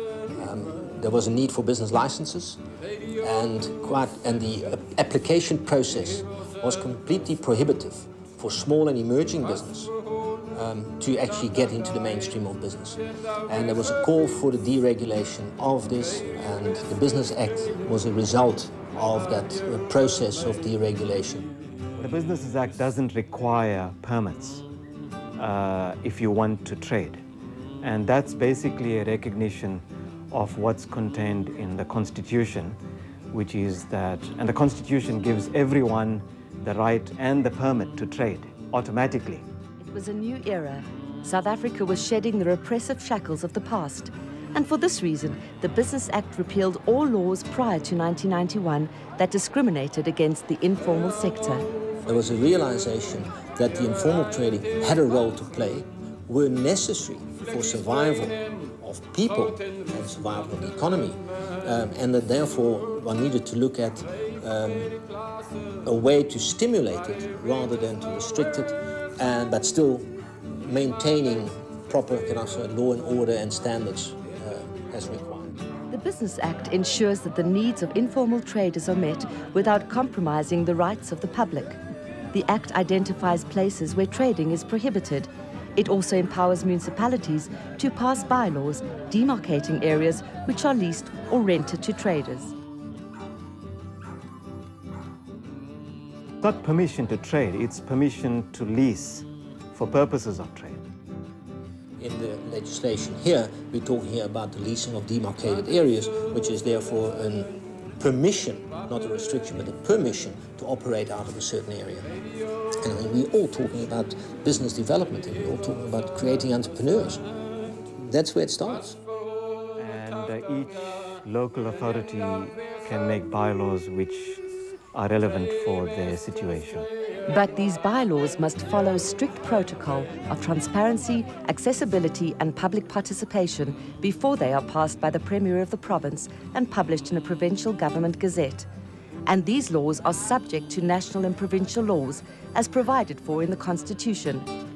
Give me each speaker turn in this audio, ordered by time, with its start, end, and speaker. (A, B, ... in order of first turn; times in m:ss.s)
0:00.3-0:02.6 A
0:03.2-0:09.9 A
0:10.5-0:21.5 A
0:22.0-0:24.6 B
0:25.4-0:27.2 B
0:27.8-0:32.8 B
0:33.3-0:39.4 B
0:39.8-0:51.7 C
0:52.1-1:04.9 A
1:05.8-1:10.1 A
1:10.6-1:15.6 A
1:15.9-1:21.8 C
1:22.3-1:32.5 C
1:36.4-1:40.8 B
1:42.0-1:52.1 A
1:52.8-1:57.2 A
1:58.0-1:59.0 A
1:59.8-2:04.4 B
2:04.9-2:06.9 B
2:07.3-2:18.7 C
2:19.3-2:24.5 C